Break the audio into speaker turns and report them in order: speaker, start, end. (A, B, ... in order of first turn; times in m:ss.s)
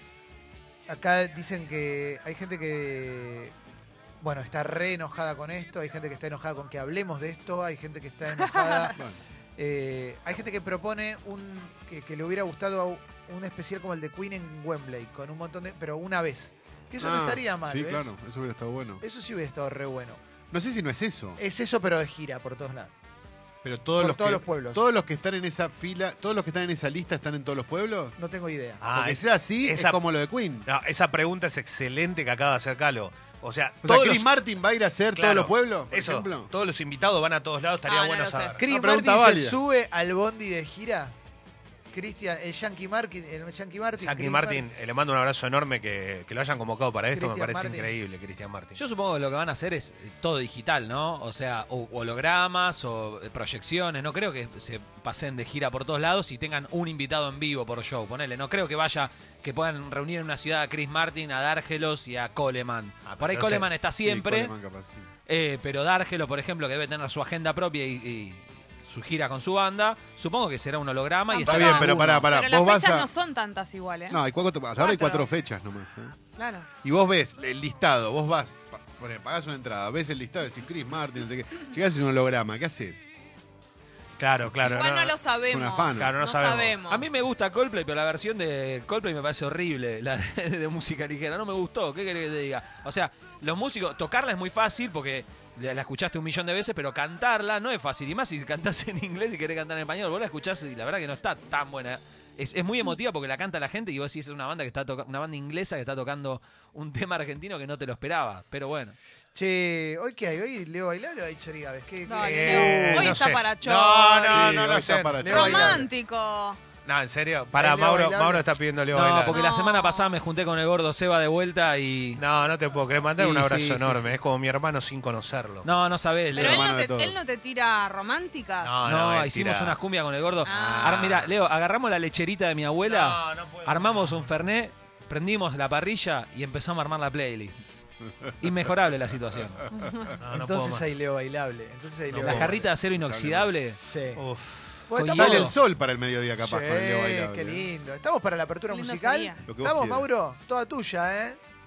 0:00.9-0:03.5 A
0:04.2-0:09.0 A
0:08.6-0:08.9 B
0:09.0-0:09.2 C
0:09.6-0:18.1 A
0:17.0-0:19.0 C
0:19.0-0:20.2 A
0:20.5-0:21.4 C
0:21.4-0:22.9 A
0:23.6-0:28.2 C
0:24.0-0:24.8 A
0:28.2-0:28.8 A
0:28.8-0:30.0 D
0:28.9-0:30.7 C
0:30.6-0:34.3 D
0:33.8-0:36.5 C
0:35.1-0:38.7 D
0:37.8-0:38.6 B
0:38.6-0:41.2 A
0:38.7-0:39.6 C
0:41.9-0:44.7 A
0:44.0-0:48.8 D
0:47.1-0:47.9 A
0:48.8-1:04.5 E
1:03.0-1:03.7 D
1:04.0-1:05.1 C
1:05.3-1:12.3 E
1:11.3-1:14.2 B
1:11.4-1:13.1 C
1:14.1-1:16.2 C
1:14.8-1:15.3 B
1:16.4-1:16.7 B
1:16.8-1:23.1 C
1:24.2-1:25.2 D
1:24.7-1:27.1 B
1:25.4-1:26.1 C
1:26.0-1:26.8 D
1:26.9-1:49.0 E
1:49.3-1:53.1 A
1:52.1-1:54.7 B
1:52.2-1:55.3 D
1:52.6-1:53.1 C
1:54.3-1:55.9 C
1:55.2-1:55.9 A
1:55.2-1:56.6 B
1:56.8-1:59.4 D
1:57.5-1:58.6 A
1:58.9-2:02.2 E
1:59.3-2:00.1 B
2:02.2-2:05.7 D
2:03.2-2:04.1 E
2:05.6-2:06.7 E
2:06.3-2:07.2 C
2:06.3-2:08.9 B
2:08.6-2:09.8 D
2:08.8-2:17.6 E
2:10.4-2:11.0 B
2:10.5-2:11.3 D
2:12.8-2:14.4 D
2:18.4-2:19.7 E
2:19.7-2:20.1 B
2:20.2-2:21.0 D
2:20.3-2:22.7 A
2:22.1-2:23.8 E
2:22.2-2:22.6 D
2:22.9-2:23.5 C
2:23.8-2:24.2 A
2:24.1-2:25.0 D
2:24.9-2:25.6 A
2:24.9-2:25.6 E
2:25.1-2:27.7 C
2:26.4-2:31.4 A
2:28.7-2:29.4 B
2:29.5-2:30.1 C